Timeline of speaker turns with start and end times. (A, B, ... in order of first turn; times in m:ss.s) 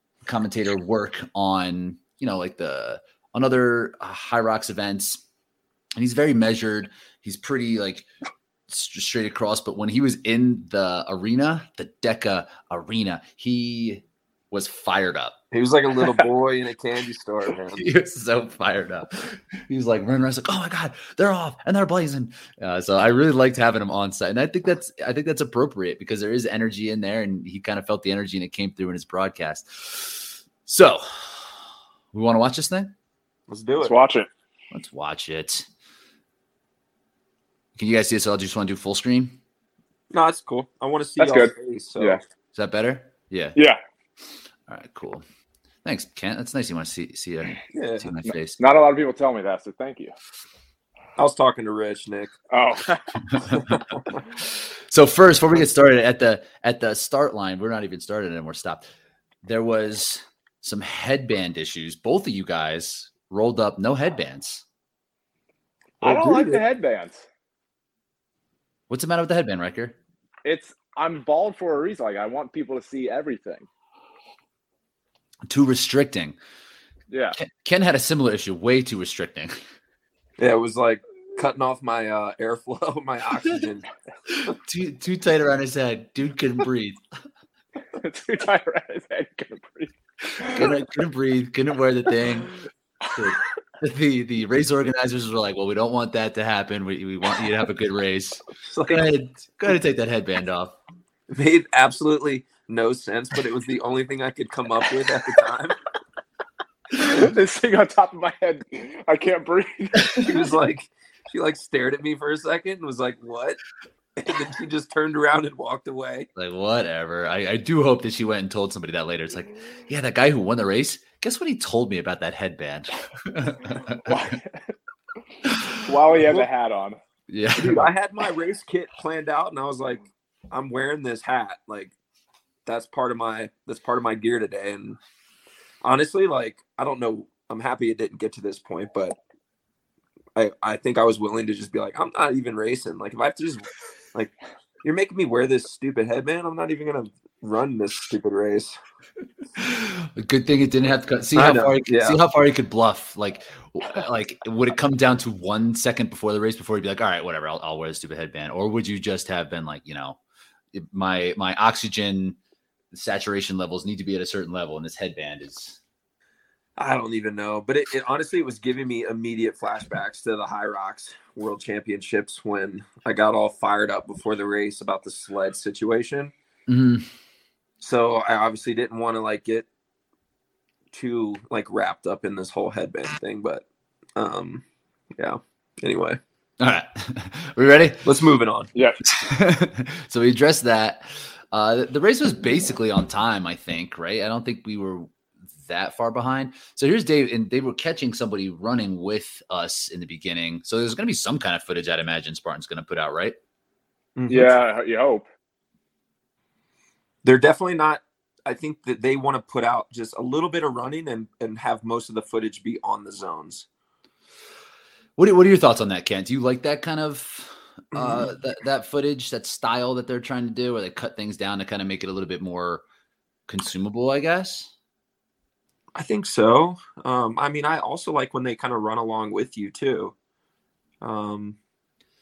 0:00.3-0:05.2 A
0:06.0-0:08.1 A
0:08.7-0:15.4 A
0:15.5-0:17.9 B
0:17.8-0:31.6 A
0:32.1-0:32.9 A
0:33.5-0:34.0 B
0:33.8-0:34.3 C
0:34.7-0:35.7 A
0:37.8-0:39.4 A
0:40.1-0:42.2 B
0:41.2-0:42.2 C
0:42.5-0:43.6 A
0:44.7-0:45.2 A
0:45.8-0:48.6 A
0:47.7-0:48.1 B
0:48.6-0:50.2 C
0:51.2-0:52.4 B
0:52.5-0:53.2 C
0:53.3-0:53.8 A
0:53.6-0:54.2 B
0:54.9-0:58.9 A
0:59.4-1:04.6 A
1:06.0-1:07.2 C
1:06.0-1:06.6 B
1:08.9-1:10.0 A
1:10.4-1:13.7 C
1:15.5-1:16.4 A
1:17.1-1:17.4 C
1:17.4-1:19.6 A
1:20.4-1:23.9 B
1:24.3-1:27.0 A
1:28.0-1:30.7 C
1:30.5-1:32.6 A
1:33.1-1:40.8 A
1:38.6-1:39.0 B
1:41.3-1:45.8 B
1:46.9-1:50.3 C
1:50.2-1:53.6 B
1:54.2-1:56.3 B
1:56.4-2:04.4 A
2:03.9-2:04.8 C
2:05.4-2:05.8 A
2:05.7-2:07.0 C
2:07.3-2:07.9 A
2:07.6-2:11.9 B
2:12.6-2:15.0 B
2:15.8-2:19.2 B
2:20.4-2:28.8 B
2:29.6-2:40.2 A
2:31.4-2:32.2 B
2:40.7-2:42.4 A
2:42.9-2:45.8 A
2:46.8-2:56.3 B
2:56.7-2:57.1 A
2:57.8-2:59.7 B
3:00.9-3:03.6 B
3:04.2-3:04.6 B
3:05.2-3:06.2 B
3:06.6-3:08.0 A
3:08.0-3:08.7 B
3:09.0-3:23.4 A
3:24.2-3:24.5 B
3:24.3-3:25.2 C
3:27.2-3:33.7 B
3:35.2-3:42.8 A
3:37.9-3:38.3 B
3:43.5-3:44.7 A
3:46.0-3:50.1 B
3:51.0-3:51.6 B